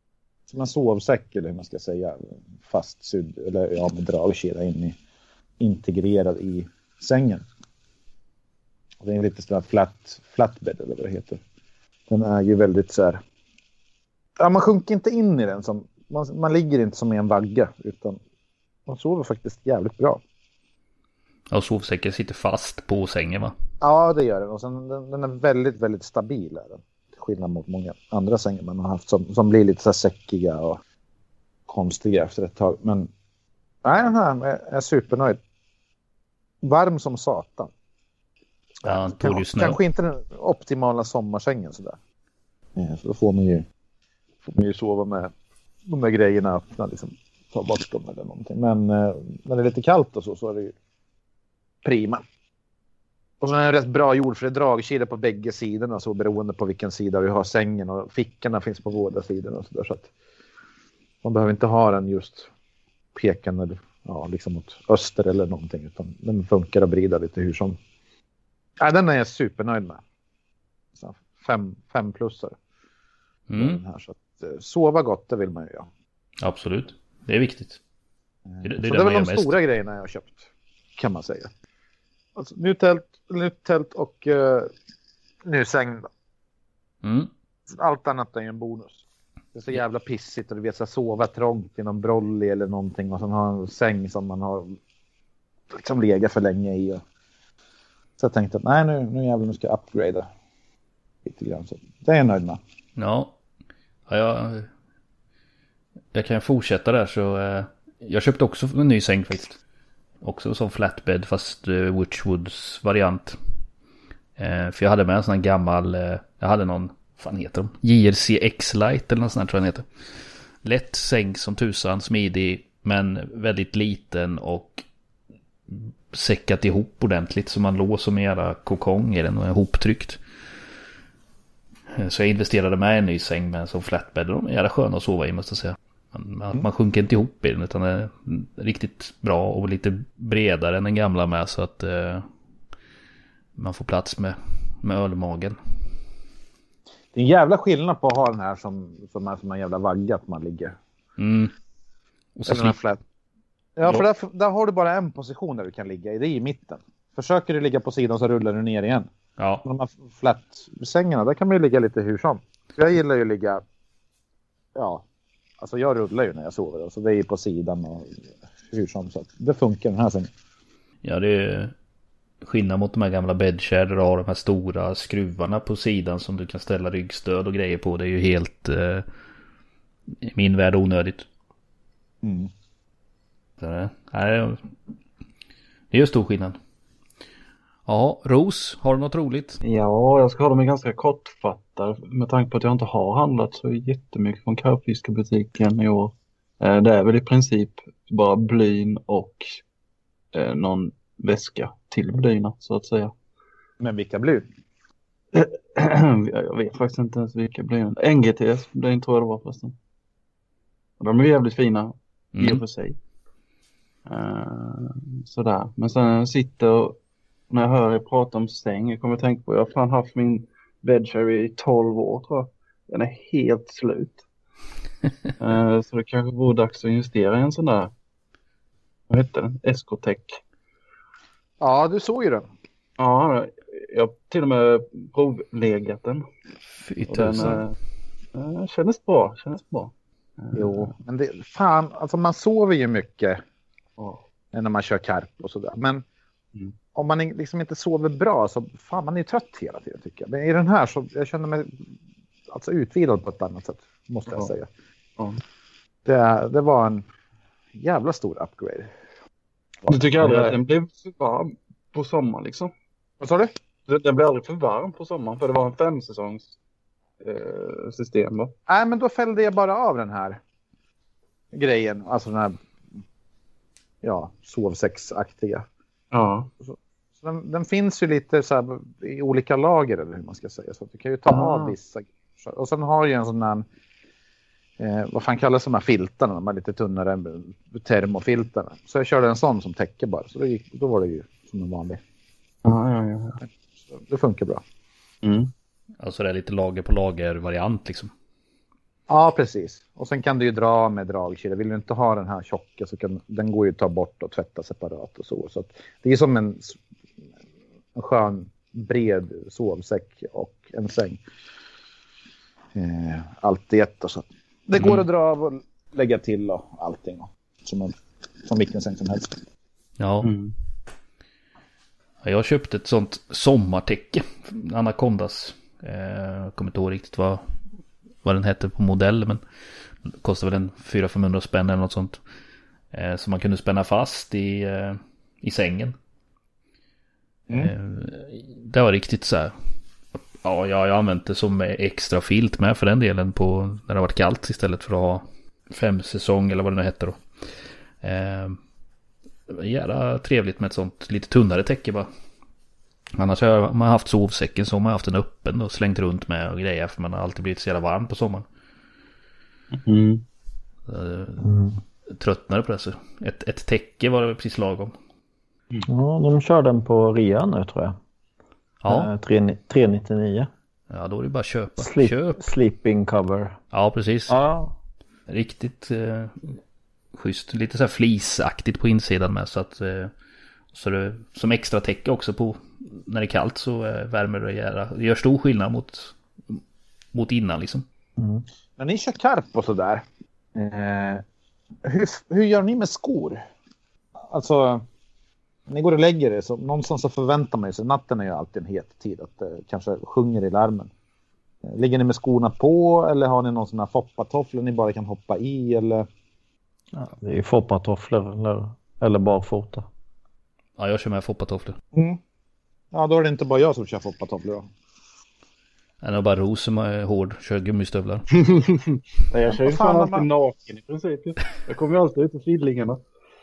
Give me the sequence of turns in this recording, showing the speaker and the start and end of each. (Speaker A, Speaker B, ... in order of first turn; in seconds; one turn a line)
Speaker A: 0.5-5.0
Speaker A: 5.6-7.5
Speaker A: 9.0-11.4
Speaker A: 12.1-13.2
Speaker A: 14.4-18.2
Speaker A: 18.9-20.2
Speaker B: 21.5-23.6
Speaker A: 23.8-30.8
Speaker A: 31.7-33.1
Speaker A: 33.8-35.4
Speaker A: 36.6-37.7
Speaker A: 38.8-42.0
Speaker B: 38.8-39.8
Speaker A: 42.8-43.7
Speaker A: 44.5-45.3
Speaker A: 45.9-50.7
Speaker A: 51.8-52.2
Speaker A: 53.4-60.1
Speaker A: 61.2-62.5
Speaker A: 63.1-67.8
Speaker A: 68.8-70.0
Speaker A: 71.0-72.6
Speaker B: 73.5-73.8
Speaker A: 73.6-75.9
Speaker B: 76.4-77.8
Speaker A: 78.5-81.5
Speaker B: 78.6-79.6
Speaker A: 82.4-84.7
Speaker A: 85.5-86.1
Speaker B: 87.0-87.3
Speaker A: 87.7-89.0
Speaker A: 89.5-94.8
Speaker A: 95.7-97.0
Speaker A: 98.2-100.3
Speaker A: 101.2-102.6
Speaker B: 103.0-103.3
Speaker B: 104.1-104.7
Speaker B: 106.1-109.6
Speaker B: 110.2-113.4
Speaker B: 114.4-119.9
Speaker B: 120.6-124.8
Speaker B: 125.7-130.2
Speaker B: 131.9-142.3
Speaker B: 143.6-145.6
Speaker A: 147.1-150.8
Speaker B: 151.2-151.5
Speaker B: 152.4-152.8
Speaker A: 152.5-153.0
Speaker A: 153.8-159.1
Speaker B: 159.4-159.6
Speaker A: 159.6-163.6
Speaker A: 164.8-165.0
Speaker A: 165.6-168.2
Speaker A: 168.7-170.3
Speaker B: 171.0-171.7
Speaker B: 172.4-179.1
Speaker B: 180.2-181.3
Speaker A: 182.2-182.5
Speaker B: 183.6-184.7
Speaker B: 185.9-186.6
Speaker B: 187.9-189.6
Speaker C: 189.6-199.6
Speaker C: 200.3-203.1
Speaker A: 203.8-204.5
Speaker C: 205.3-209.8
Speaker C: 211.0-213.0
Speaker B: 212.4-212.6
Speaker C: 214.1-217.0
Speaker C: 217.5-224.2
Speaker C: 225.4-227.9
Speaker C: 229.1-230.4
Speaker A: 231.6-232.5
Speaker C: 233.0-236.3
Speaker B: 236.8-237.7
Speaker C: 237.1-237.7
Speaker C: 238.3-240.9
Speaker A: 240.6-243.4
Speaker A: 244.5-246.0
Speaker A: 246.9-251.8
Speaker A: 252.5-254.7
Speaker A: 256.1-257.1
Speaker A: 257.8-258.9
Speaker A: 259.9-260.6
Speaker C: 259.9-262.7
Speaker D: 260.2-260.5
Speaker A: 263.2-263.5
Speaker C: 263.9-266.5
Speaker C: 267.2-268.5
Speaker A: 268.7-270.4
Speaker A: 271.5-272.6
Speaker A: 274.0-275.7
Speaker C: 276.1-276.5
Speaker A: 276.6-283.6
Speaker C: 281.3-281.8
Speaker A: 284.8-292.0
Speaker C: 292.6-293.4
Speaker A: 294.0-294.6
Speaker C: 295.2-295.5
Speaker B: 296.0-298.1
Speaker A: 299.1-306.8
Speaker A: 307.9-311.2
Speaker A: 312.8-319.4
Speaker B: 314.8-315.0
Speaker B: 320.0-320.3
Speaker C: 320.2-320.5
Speaker B: 322.2-327.4
Speaker B: 328.2-329.4
Speaker B: 330.1-332.2
Speaker B: 332.9-336.0
Speaker B: 337.5-339.6
Speaker B: 340.4-347.2
Speaker B: 348.0-348.6
Speaker B: 349.5-352.1
Speaker B: 353.2-358.5
Speaker C: 359.7-360.2
Speaker B: 360.9-364.9
Speaker D: 361.4-361.7
Speaker D: 365.9-367.9
Speaker B: 368.8-369.1
Speaker D: 368.9-370.5
Speaker B: 370.9-372.4
Speaker D: 371.8-373.6
Speaker B: 373.7-374.4
Speaker D: 374.3-374.7
Speaker B: 375.3-376.6
Speaker B: 377.1-380.1
Speaker B: 380.7-386.6
Speaker B: 387.1-387.9
Speaker A: 388.8-390.0
Speaker A: 390.6-391.2
Speaker A: 391.8-393.4
Speaker A: 394.3-394.8
Speaker A: 395.7-400.9
Speaker A: 401.6-406.1
Speaker D: 407.0-409.9
Speaker B: 410.8-411.8
Speaker A: 411.9-412.2
Speaker A: 412.9-414.7
Speaker B: 416.0-418.3
Speaker C: 419.3-423.0
Speaker A: 419.5-420.3